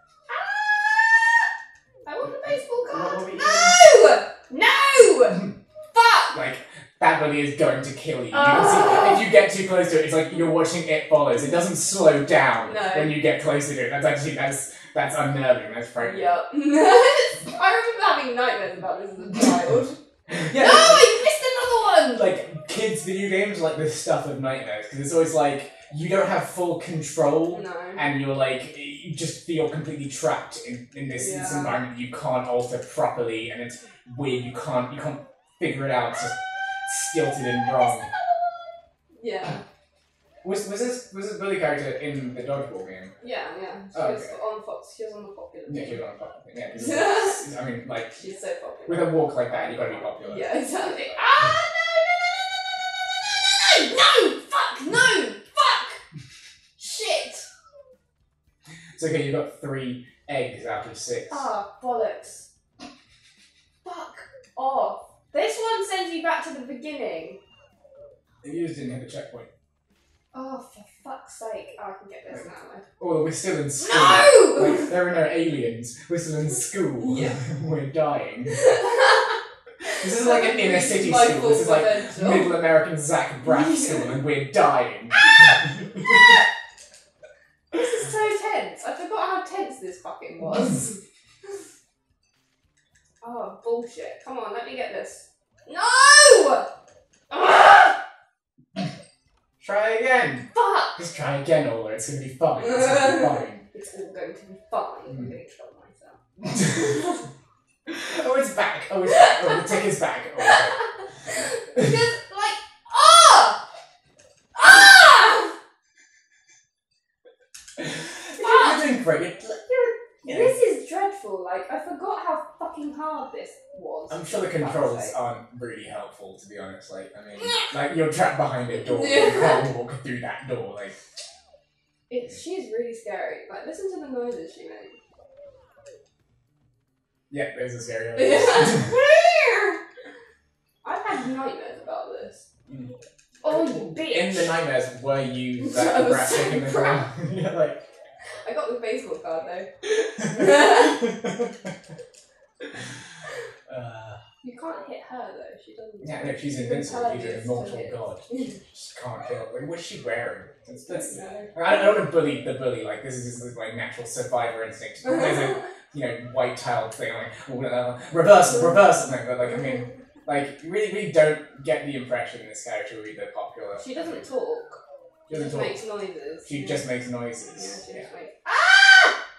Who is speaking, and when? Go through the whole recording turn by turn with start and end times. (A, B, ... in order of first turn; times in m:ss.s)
0:00.3-0:01.4 A
0:02.0-0:06.4 A
0:02.2-0:03.8 B
0:06.3-0:16.3 B
0:08.3-0:09.3 A
0:12.6-0:13.2 A
0:16.0-0:20.0 A
0:20.3-0:21.1 B
0:20.5-0:22.3 A
0:22.0-0:38.1 B
0:27.5-0:28.0 A
0:31.1-0:31.8 A
0:39.1-0:39.6 A
0:40.4-0:43.1 B
0:43.2-0:46.0 A
0:43.9-0:44.3 B
0:45.7-0:48.2 B
0:46.7-0:47.4 A
0:48.1-0:56.0 A
0:48.9-0:50.6 B
0:56.8-0:57.4 A
0:59.0-1:01.5 B
1:01.3-1:02.5 A
1:03.8-1:07.4 A
1:08.4-1:09.5 B
1:10.3-1:12.8 A
1:13.0-1:18.7 B
1:13.8-1:15.0 A
1:17.0-1:17.4 A
1:18.5-1:22.7 A
1:19.9-1:26.2 B
1:23.4-1:24.2 A
1:27.7-1:31.0 A
1:33.2-1:36.7 A
1:37.3-1:38.0 A
1:39.6-1:43.6 B
1:40.5-1:41.0 A
1:42.6-1:47.2 A
1:46.5-1:46.9 B
1:47.9-1:50.8 B
1:49.0-1:49.8 A
1:50.4-1:53.6 A
1:54.5-1:55.5 A
1:57.8-2:00.5 B
1:58.4-1:58.8 A
2:00.2-2:05.1 A
2:04.1-2:10.9 B
2:07.4-2:07.7 A
2:08.7-2:09.7 A
2:12.1-2:15.0 A
2:17.3-2:18.9 B
2:18.2-2:19.8 A
2:20.8-2:22.4 A
2:22.7-2:22.9 B
2:23.4-2:24.5 A
2:23.5-2:27.9 B
2:25.6-2:27.1 A
2:28.4-2:31.1 A
2:30.2-2:31.5 B
2:33.7-2:34.2 B
2:34.4-2:38.6 A
2:36.0-2:54.2 B
2:40.9-2:41.8 A
2:48.5-2:48.8 A
2:53.8-2:54.8 A
2:55.3-2:55.8 B
2:55.3-2:56.9 A
2:56.4-2:58.0 B
2:57.5-2:59.2 A